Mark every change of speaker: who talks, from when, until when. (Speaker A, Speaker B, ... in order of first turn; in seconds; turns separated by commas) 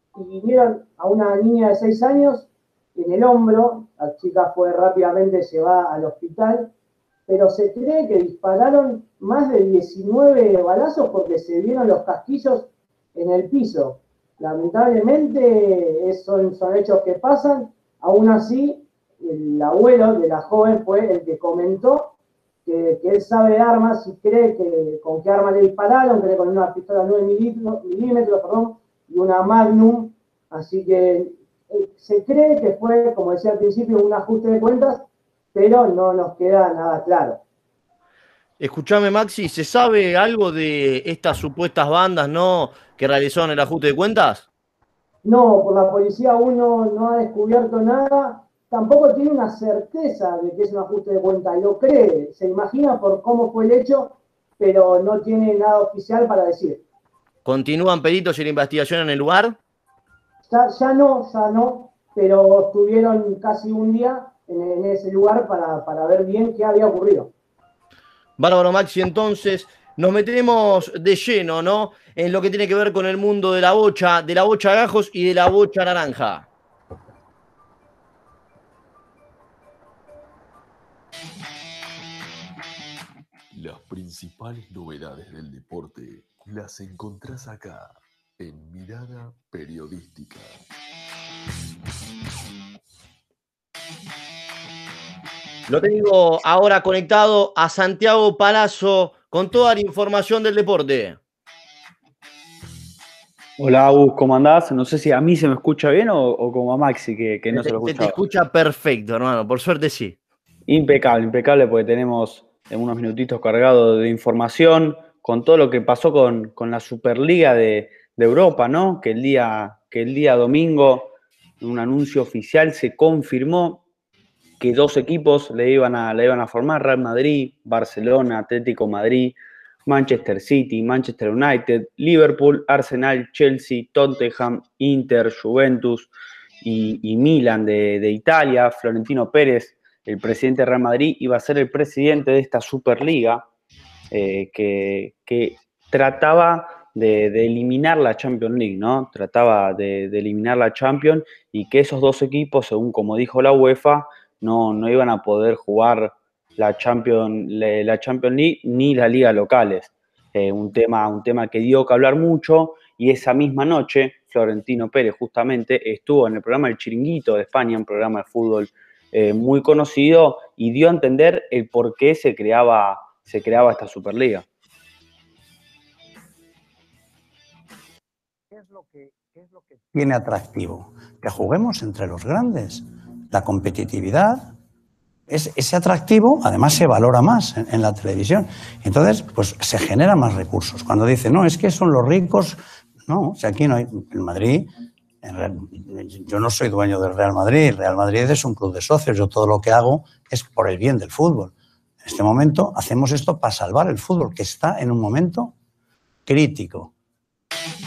Speaker A: 0.1-6.7, Speaker A: 7.3-22.1, Speaker A: 22.6-37.4, Speaker B: 38.6-44.5, Speaker A: 45.2-56.8, Speaker B: 57.4-59.6, Speaker A: 60.4-67.3, Speaker B: 68.4-76.5, Speaker C: 83.5-90.6, Speaker B: 95.7-101.2, Speaker D: 103.6-108.2, Speaker B: 107.5-110.2, Speaker D: 110.7-123.8, Speaker D: 124.6-136.1, Speaker D: 136.6-143.4, Speaker D: 144.1-174.4, Speaker E: 178.5-184.5, Speaker E: 185.3-194.7, Speaker E: 195.2-205.5, Speaker E: 206.2-206.9